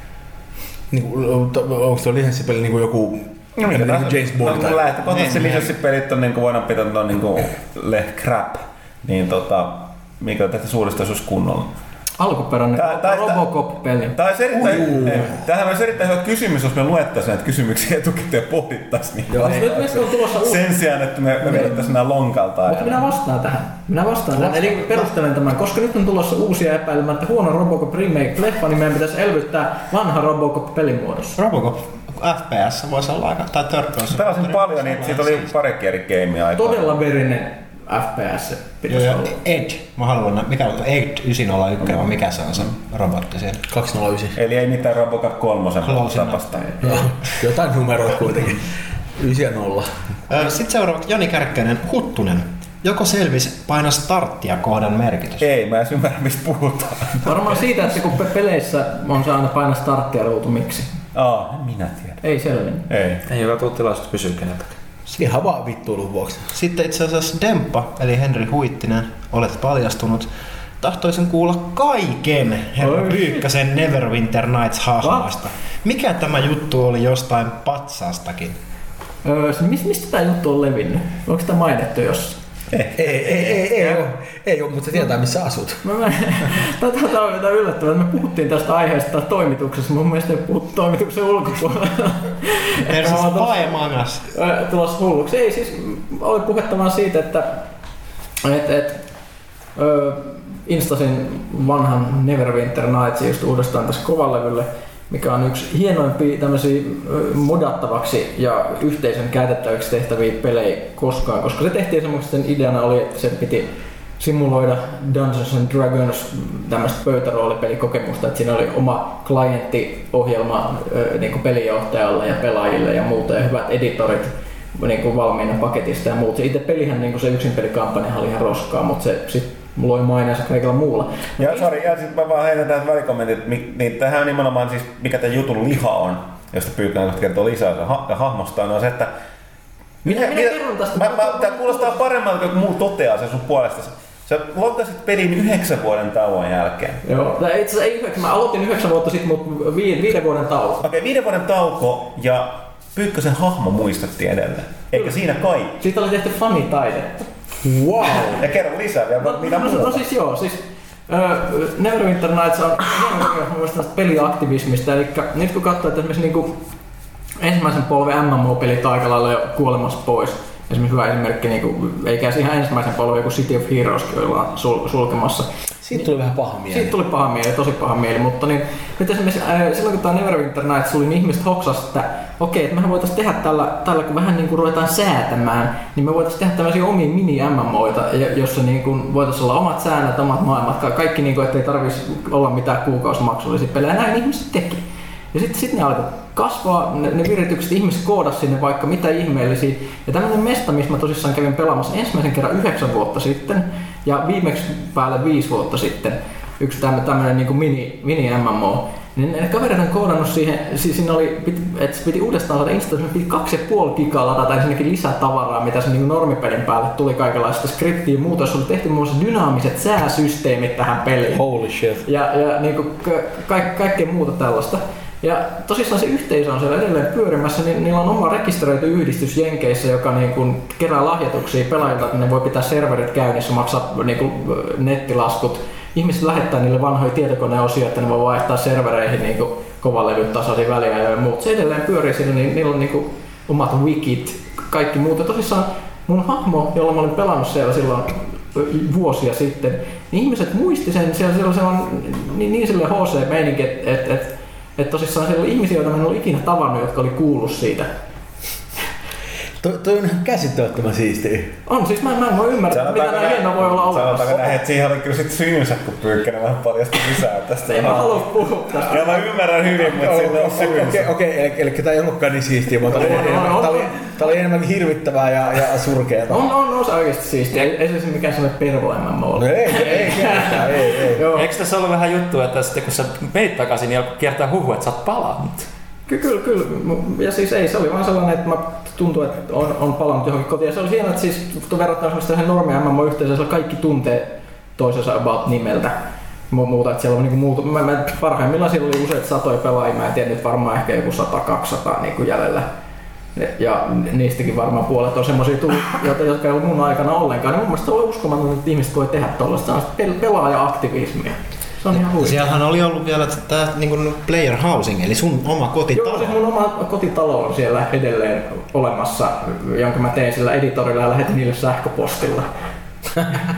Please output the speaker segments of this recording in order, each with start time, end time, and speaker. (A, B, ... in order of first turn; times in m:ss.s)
0:00.9-0:05.7 A
0:03.6-0:11.7 B
0:12.2-0:14.2 C
0:12.8-0:13.4 B
0:14.1-0:23.0 B
0:14.5-0:15.4 A
0:19.3-0:19.6 A
0:19.4-0:20.6 C
0:21.5-0:21.8 C
0:22.7-0:31.4 C
0:24.3-0:25.0 A
0:31.4-0:35.5 D
0:34.1-0:37.0 B
0:36.6-0:39.4 C
0:38.9-0:43.6 D
0:43.7-0:44.4 A
0:44.4-0:46.6 B
0:45.8-0:46.6 D
0:46.8-0:50.1 A
0:50.3-0:55.4 D
0:55.4-0:57.6 B
0:57.2-1:00.9 C
1:01.1-1:02.2 B
1:02.2-1:02.9 C
1:02.9-1:03.2 B
1:03.2-1:04.7 E
1:05.1-1:06.5 A
1:06.5-1:10.3 D
1:10.8-1:18.6 D
1:12.8-1:13.4 C
1:15.0-1:15.3 C
1:19.2-1:22.4 C
1:22.7-1:23.5 B
1:23.0-1:25.8 A
1:25.8-1:37.6 C
1:32.9-1:34.3 D
1:38.4-1:39.0 C
1:39.7-2:11.9 C
2:11.4-2:19.1 B
2:20.0-2:27.0 B
2:20.0-2:22.0 C
2:27.0-2:30.8 C
2:30.8-2:35.7 B
2:34.9-2:35.2 C
2:35.7-2:37.2 C
2:37.6-2:38.4 A
2:38.3-2:40.0 B
2:39.2-2:46.6 C
2:47.4-2:55.5 C
2:55.8-2:57.0 A
2:56.7-3:41.4 C
3:41.3-3:42.0 A
3:42.0-4:17.9 C
4:19.6-4:21.6 A
4:21.6-4:24.4 C
4:22.7-4:28.2 B
4:27.7-4:29.3 C
4:28.8-4:31.1 B
4:29.8-4:36.4 A
4:32.9-4:34.1 C
4:36.3-4:41.0 C
4:39.4-4:41.4 A
4:41.2-4:45.7 E
4:46.1-5:02.7 C
5:03.3-5:12.4 C
5:11.9-5:16.4 D
5:15.9-5:22.5 C